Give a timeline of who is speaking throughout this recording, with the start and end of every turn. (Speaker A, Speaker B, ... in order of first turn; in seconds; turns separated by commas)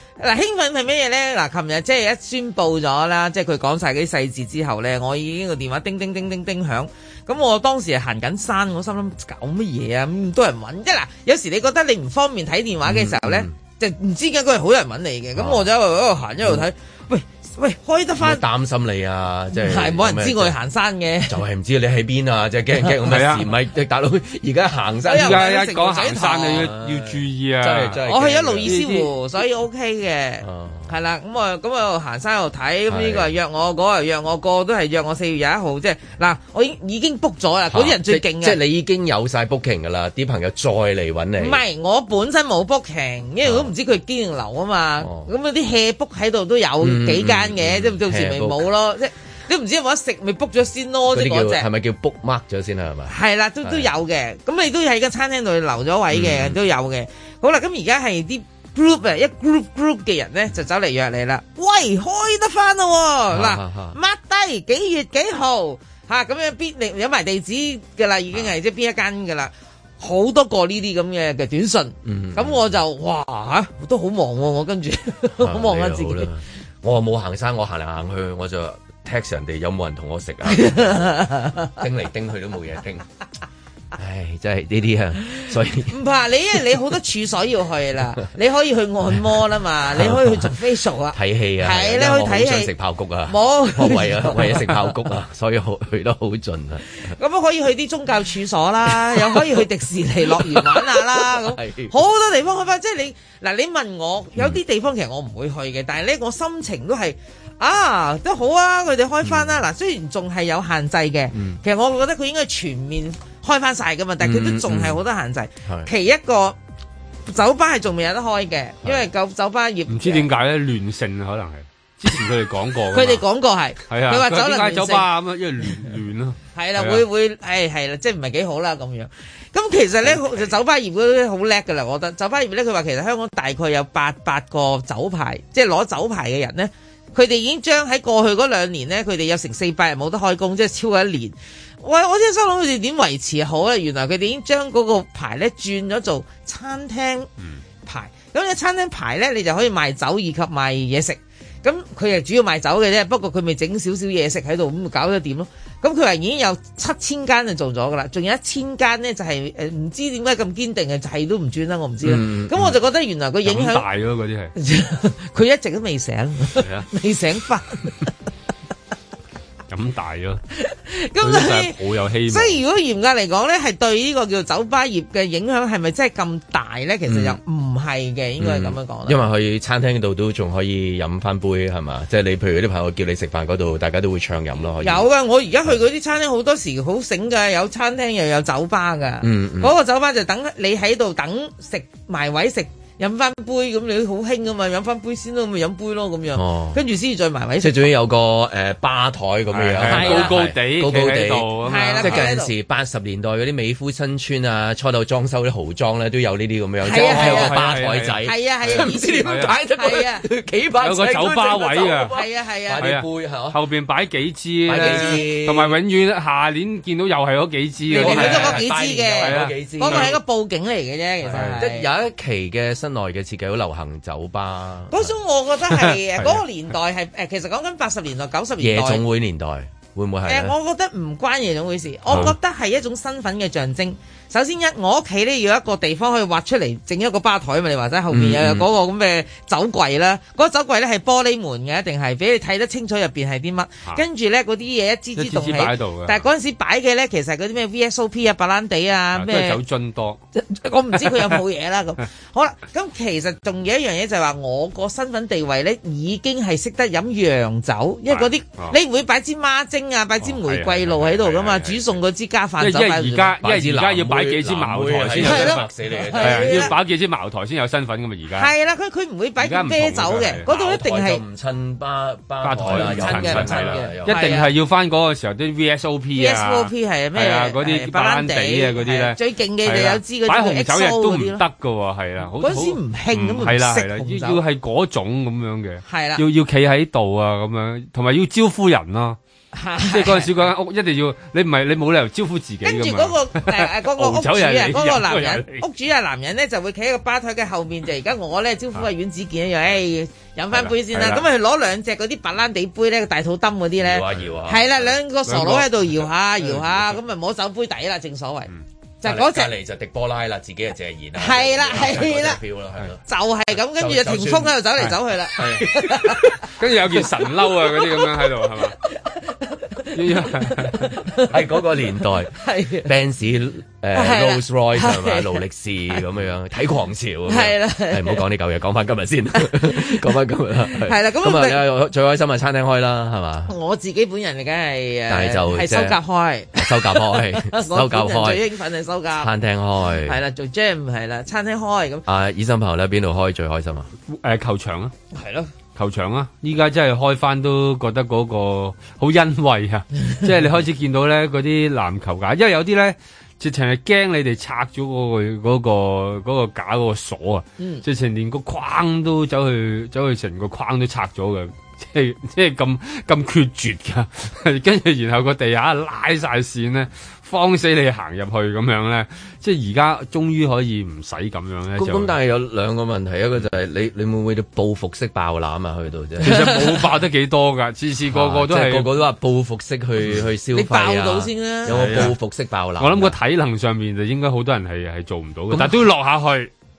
Speaker A: 0.2-18.4, Speaker B: 12.8-13.5, Speaker B: 15.3-15.7, Speaker B: 18.2-20.6, Speaker A: 19.6-21.4, Speaker B: 21.3-25.5, Speaker C: 23.0-23.5, Speaker A: 25.1-26.7, Speaker C: 25.1-28.0, Speaker B: 26.5-28.8, Speaker A: 28.0-38.6, Speaker C: 28.6-29.1, Speaker B: 30.4-30.9, Speaker B: 32.9-33.3, Speaker B: 37.7-41.6, Speaker A: 41.4-51.6, Speaker B: 43.4-43.7, Speaker B: 45.0-45.3, Speaker B: 46.8-48.7, Speaker B: 51.1-53.9, Speaker A: 53.1-76.3, Speaker B: 56.1-56.6, Speaker B: 63.3-64.0, Speaker B: 72.0-72.7, Speaker B: 75.4-81.2, Speaker A: 80.5-81.7, Speaker B: 81.8-83.0, Speaker B: 83.9-85.9, Speaker A: 85.9-92.7, Speaker B: 89.9-90.5, Speaker B: 91.1-97.1, Speaker A: 93.3-94.9, Speaker A: 97.1-116.5, Speaker B: 98.9-99.6, Speaker B: 100.2-102.0, Speaker B: 109.2-109.6, Speaker B: 111.3-111.6, Speaker B: 114.2-115.0, Speaker A: 117.3-120.2, Speaker C: 119.9-123.2, Speaker A: 122.9-125.0, Speaker C: 123.9-127.0, Speaker A: 126.5-147.3, Speaker A: 147.8-163.8, Speaker B: 162.0-162.7, Speaker C: 163.4-164.5, Speaker A: 164.6-167.9, Speaker C: 166.6-166.9, Speaker C: 169.7-170.4, Speaker A: 170.7-171.8, Speaker C: 171.2-172.6, Speaker A: 172.3-179.2, Speaker B: 177.1-177.4, Speaker B: 178.4-185.1, Speaker A: 184.8-197.9, Speaker B: 189.2-189.7, Speaker B: 196.3-196.8, Speaker B: 197.6-213.6, Speaker C: 199.5-202.3, Speaker A: 199.8-200.3, Speaker A: 201.6-202.5, Speaker A: 206.8-210.2, Speaker C: 206.9-209.5, Speaker C: 210.8-212.1, Speaker A: 212.1-212.8, Speaker C: 212.8-218.7, Speaker B: 214.7-215.8, Speaker A: 214.8-215.2, Speaker A: 217.9-221.9, Speaker B: 217.9-220.2, Speaker C: 219.2-220.2, Speaker B: 221.3-225.1, Speaker C: 221.3-221.6, Speaker A: 224.9-229.0, Speaker C: 225.8-226.4, Speaker B: 228.6-230.5, Speaker A: 230.2-249.6, Speaker B: 238.1-238.7, Speaker C: 245.2-246.2, Speaker C: 249.1-250.2, Speaker A: 250.3-263.3, Speaker C: 251.0-251.3, Speaker C: 258.1-258.8, Speaker C: 260.2-262.0, Speaker C: 262.6-265.6, Speaker B: 263.4-266.7, Speaker A: 265.2-266.7, Speaker C: 266.2-268.5, Speaker A: 268.4-271.2, Speaker C: 269.4-270.4, Speaker B: 270.4-274.2, Speaker C: 272.4-289.2, Speaker A: 272.6-274.5, Speaker A: 276.1-281.4, Speaker A: 282.4-284.4, Speaker A: 285.9-286.2, Speaker A: 289.5-290.3, Speaker C: 289.8-295.6, Speaker A: 292.6-308.5, Speaker C: 300.5-301.2, Speaker B: 303.8-304.9, Speaker C: 305.3-306.8, Speaker A: 309.0-309.5, Speaker B: 309.0-313.0, Speaker A: 311.2-312.4, Speaker A: 313.1-316.2, Speaker B: 313.7-314.6, Speaker B: 315.4-316.2, Speaker C: 315.7-318.8, Speaker A: 317.0-322.9, Speaker C: 319.9-321.0, Speaker B: 321.2-322.3, Speaker B: 322.8-333.5, Speaker A: 323.9-325.4, Speaker A: 327.3-328.2, Speaker A: 329.4-330.1, Speaker A: 330.6-331.6, Speaker A: 333.5-339.3, Speaker B: 335.1-336.0, Speaker B: 336.5-338.4, Speaker B: 339.1-340.2, Speaker A: 340.0-342.0, Speaker B: 342.1-343.9, Speaker C: 344.1-344.9, Speaker A: 345.1-345.5, Speaker C: 345.8-372.1, Speaker B: 371.7-376.5, Speaker C: 376.2-378.9, Speaker A: 376.2-376.8, Speaker B: 378.0-383.1, Speaker A: 380.5-382.0, Speaker C: 381.7-382.1, Speaker C: 382.8-386.5, Speaker B: 385.5-385.9